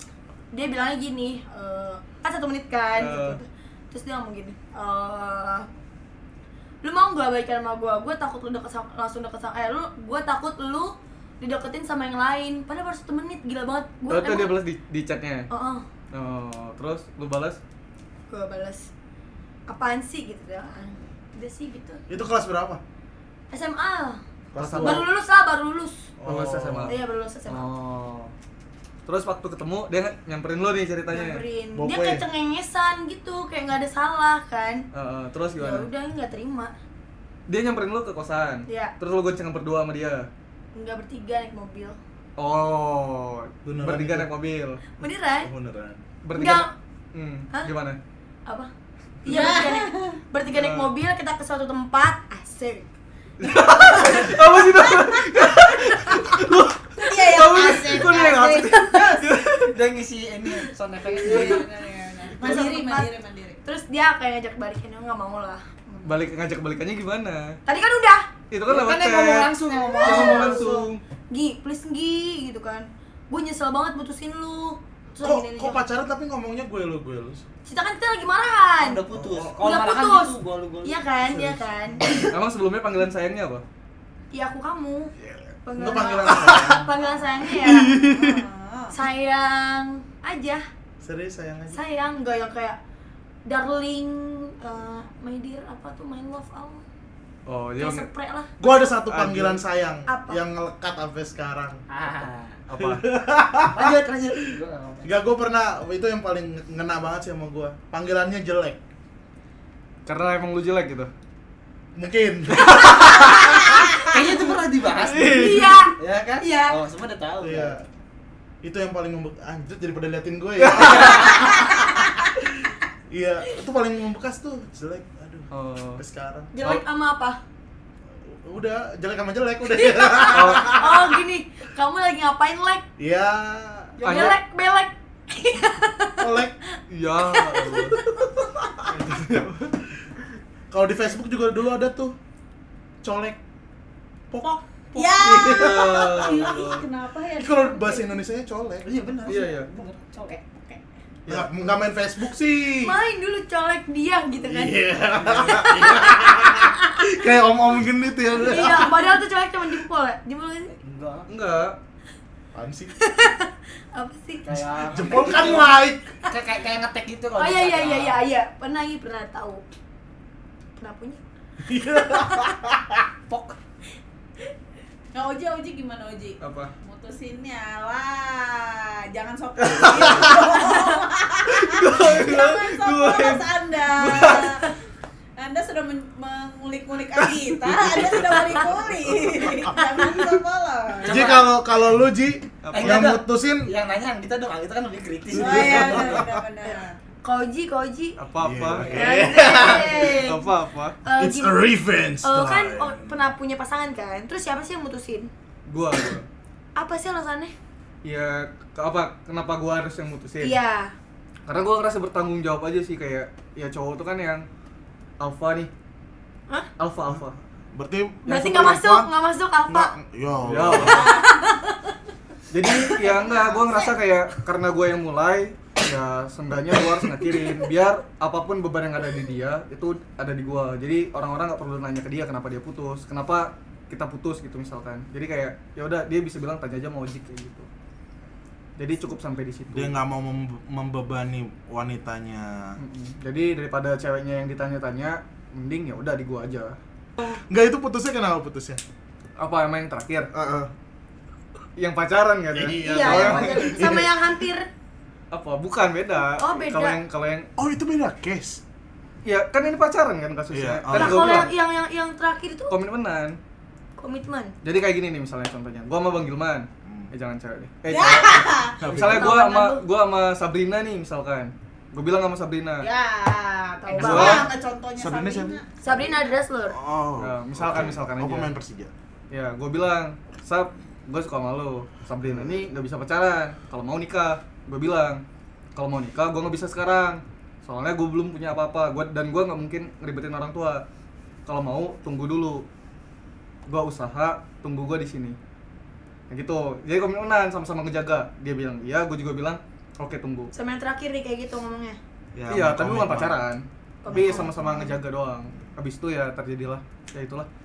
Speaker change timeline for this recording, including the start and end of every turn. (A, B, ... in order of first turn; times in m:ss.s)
0:00.5-0:05.7 A
0:02.9-0:03.4 B
0:06.8-0:14.6 A
0:14.1-0:15.5 B
0:15.5-0:15.8 A
0:16.1-0:17.6 B
0:18.3-0:18.9 A
0:19.7-0:22.0 A
0:22.1-0:22.8 C
0:23.5-0:24.2 A
0:24.5-0:25.1 C
0:24.6-0:25.0 B
0:24.8-0:26.1 A
0:26.2-0:27.0 C
0:26.2-0:28.3 B
0:26.9-0:27.7 A
0:29.0-0:31.4 B
0:31.1-0:34.9 A
0:31.7-0:32.2 C
0:34.9-0:35.9 B
0:35.6-0:36.7 A
0:37.5-0:40.3 B
0:38.7-0:38.9 A
0:40.7-0:42.0 A
0:42.4-0:44.8 B
0:43.6-0:44.3 C
0:45.0-0:45.5 A
0:45.4-0:46.0 C
0:46.2-0:48.0 B
0:46.3-0:46.7 A
0:48.4-0:48.7 A
0:49.2-0:52.9 A
0:49.2-0:50.2 D
0:50.5-0:50.9 B
0:53.4-0:59.8 B
0:53.9-0:54.3 A
0:57.0-0:58.8 D
0:57.5-1:01.7 E
1:01.2-1:03.6 D
1:02.4-1:03.1 A
1:03.6-1:06.3 A
1:06.0-1:07.6 B
1:07.6-1:08.3 A
1:08.5-1:11.0 B
1:08.7-1:10.9 E
1:09.8-1:15.8 A
1:15.2-1:17.4 C
1:17.6-1:19.0 A
1:18.8-1:21.0 E
1:19.2-1:19.5 C
1:19.6-1:22.3 A
1:21.3-1:22.1 C
1:22.2-1:23.6 B
1:24.3-1:25.1 A
1:25.3-1:26.9 C
1:25.6-1:28.4 A
1:27.9-1:29.0 D
1:28.9-1:30.6 A
1:31.0-1:31.8 C
1:31.7-1:32.8 A
1:33.4-1:36.8 A
1:37.4-1:38.1 B
1:37.8-1:38.5 A
1:38.6-1:41.8 C
1:39.0-1:39.6 B
1:40.1-1:40.4 A
1:41.9-1:42.6 E
1:42.7-1:43.0 B
1:42.8-1:44.0 C
1:43.7-1:45.1 E
1:45.0-1:48.8 C
1:50.0-1:51.1 B
1:52.0-1:53.7 C
1:52.6-1:53.3 B
1:53.9-1:57.8 E
1:54.9-1:55.8 B
1:55.3-1:56.8 A
1:57.4-1:57.8 C
1:58.6-2:02.0 C
2:00.6-2:01.4 B
2:00.8-2:01.4 E
2:03.1-2:06.5 C
2:05.5-2:06.0 B
2:06.5-2:07.4 A
2:08.2-2:11.2 C
2:09.8-2:12.8 A
2:10.3-2:10.7 B
2:13.0-2:14.0 C
2:14.0-2:14.3 E
2:14.0-2:16.3 A
2:14.0-2:14.4 B
2:16.2-2:16.5 C
2:16.9-2:18.0 B
2:17.2-2:18.3 A
2:18.4-2:19.4 C
2:18.9-2:19.7 B
2:20.7-2:22.2 C
2:23.0-2:23.4 C
2:24.3-2:26.1 C
2:24.4-2:28.2 D
2:25.3-2:26.8 B
2:27.4-2:28.8 C
2:28.8-2:30.4 E
2:29.2-2:29.7 B
2:30.5-2:30.8 D
2:31.2-2:31.5 B
2:31.3-2:33.0 C
2:32.8-2:36.7 A
2:34.4-2:39.2 C
2:38.4-2:40.7 A
2:40.7-2:41.3 E
2:41.3-2:41.8 B
2:42.5-2:42.9 C
2:43.0-2:44.6 A
2:44.4-2:48.2 E
2:44.9-2:46.2 C
2:47.4-2:49.6 A
2:50.8-2:51.2 A
2:51.6-2:53.0 C
2:53.3-2:53.6 E
2:55.1-3:04.7 D
2:56.4-2:56.7 B
2:59.6-3:00.5 B
3:01.5-3:04.7 B
3:05.4-3:11.3 D
3:11.0-3:11.5 E
3:11.0-3:13.7 C
3:12.6-3:13.1 B
3:12.7-3:16.3 E
3:15.3-3:17.0 D
3:15.3-3:16.3 C
3:17.2-3:18.2 A
3:18.2-3:21.0 B
3:18.4-3:20.2 C
3:18.9-3:20.5 A
3:19.3-3:19.6 E
3:21.0-3:21.7 A
3:21.2-3:23.2 C
3:22.2-3:25.3 A
3:25.7-3:26.3 B
3:26.8-3:27.5 A
3:28.0-3:30.6 B
3:30.4-3:31.0 A
3:31.4-3:34.5 B
3:35.2-3:35.7 B
3:36.8-3:37.4 B
3:37.7-3:39.1 C
3:38.2-3:39.9 A
3:39.7-3:41.2 C
3:40.4-3:41.2 B
3:41.1-3:41.4 A
3:42.5-3:57.7 B
3:58.8-4:00.0 B
3:59.7-4:02.8 C
4:02.8-4:06.8 B
4:07.2-4:08.8 C
4:09.4-4:10.3 B
4:10.3-4:10.7 C
4:11.8-4:13.8 B
4:12.5-4:14.3 C
4:12.8-4:14.7 A
4:15.3-4:17.5 B
4:16.4-4:17.0 A
4:17.6-4:18.6 C
4:19.2-4:21.5 B
4:20.5-4:21.5 C
4:20.9-4:22.8 A
4:22.7-4:23.4 B
4:24.0-4:24.5 A
4:24.6-4:32.9 B
4:26.8-4:27.1 C
4:27.9-4:28.8 D
4:28.8-4:29.3 C
4:29.0-4:29.8 A
4:32.8-4:36.1 D
4:33.8-4:34.5 A
4:33.9-4:34.5 B
4:35.0-4:35.6 C
4:35.8-4:36.8 A
4:36.7-4:38.9 C
4:37.2-4:38.5 B
4:39.3-4:45.2 B
4:42.2-4:42.6 C
4:45.7-4:50.8 B
4:51.4-4:52.6 B
4:53.7-4:55.4 B
4:56.3-5:00.5 B
5:00.5-5:02.0 A
5:02.3-5:03.4 C
5:02.5-5:07.5 B
5:04.0-5:04.9 A
5:04.1-5:04.8 C